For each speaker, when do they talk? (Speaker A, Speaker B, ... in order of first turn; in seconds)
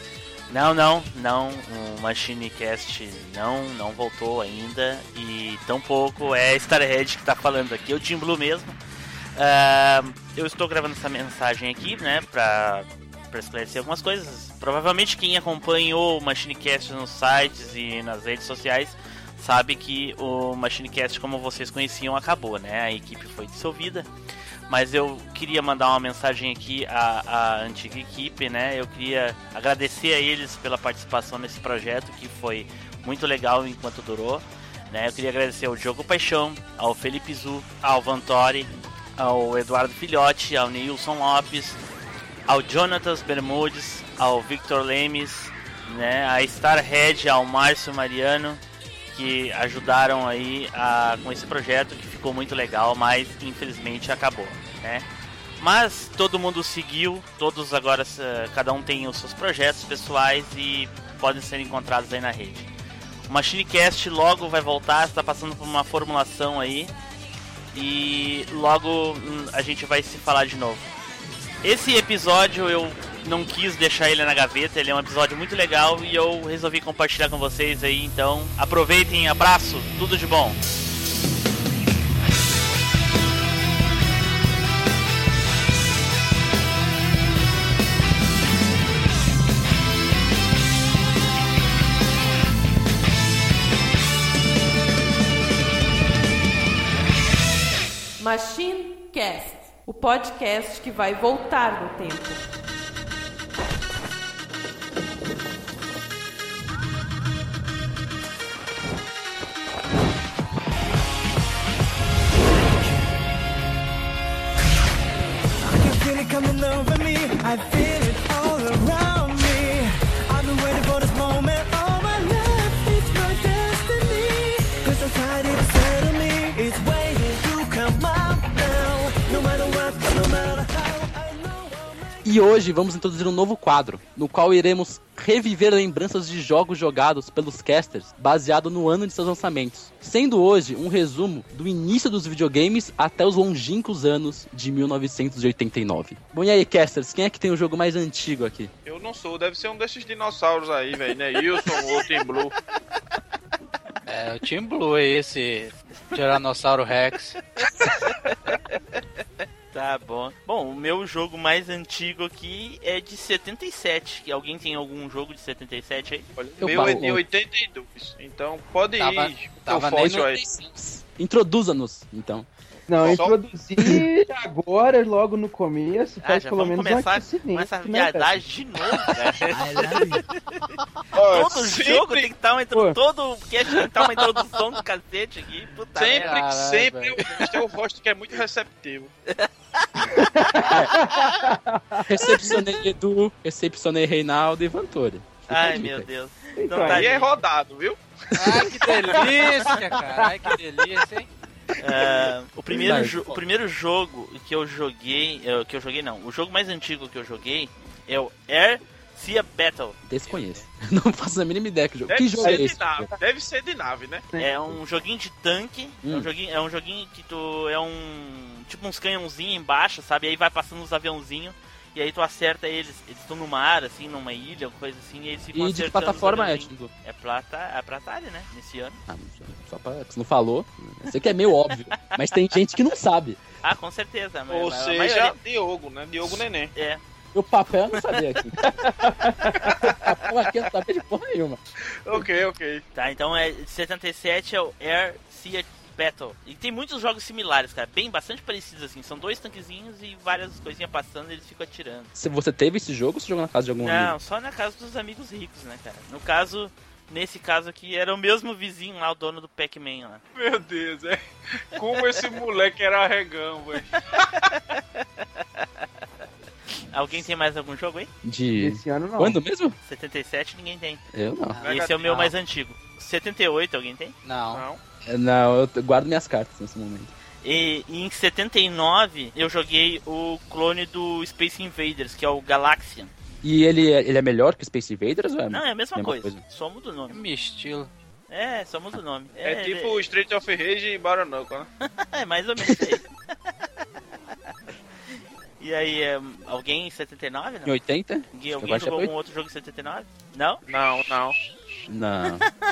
Speaker A: 0.5-8.8, 9.3-24.1, 24.7-41.8, 42.5-55.1, 55.6-62.7, 63.3-66.9, 67.7-70.9, 71.6-80.6, 159.7-166.3, 176.2-180.2, 181.2-186.4, 189.3-190.2, 195.5-197.3, 201.8-210.0, 214.4-229.0, 232.1-232.8, 233.6-235.4, 236.7-237.0, 242.9-252.1, 253.8-260.2, 264.3-265.9, 266.9-268.1, 269.8-271.0, 271.6-274.1, 277.4-283.1, 285.5-287.2, 288.3-290.0, 292.0-293.1, 295.6-297.8, 298.3-300.6
Speaker B: 98.2-102.4
Speaker C: 115.6-132.2
Speaker D: 132.2-148.7, 166.6-167.2, 170.6-172.5, 190.6-190.9, 192.0-196.1, 198.4-198.8, 202.7-203.4, 210.0-213.1, 216.0-216.3, 225.5-226.9, 229.1-233.4, 237.3-238.8, 239.5-241.6, 252.1-254.2, 268.2-269.8, 271.1-271.6, 275.1-277.1, 283.4-286.4, 297.6-299.1, 301.9-302.4
Speaker E: 148.8-152.5, 166.4-170.4, 173.0-173.4, 179.2-179.9, 181.1-182.3, 185.9-189.1, 196.7-199.2, 212.1-214.2, 234.5-236.7, 242.0-242.8, 260.3-261.2, 261.7-264.4, 271.6-272.0, 274.5-274.8, 289.4-291.7, 300.7-301.4
Speaker F: 154.1-157.4, 169.0-170.5, 179.7-180.0, 186.1-187.5, 198.3-201.3, 210.3-210.6, 271.5-272.3, 274.2-274.6, 287.1-287.9
Speaker G: 172.9-178.4, 190.1-192.5, 196.6-197.1, 200.0-200.4, 212.4-213.2, 214.3-214.8, 238.6-240.0, 268.6-269.4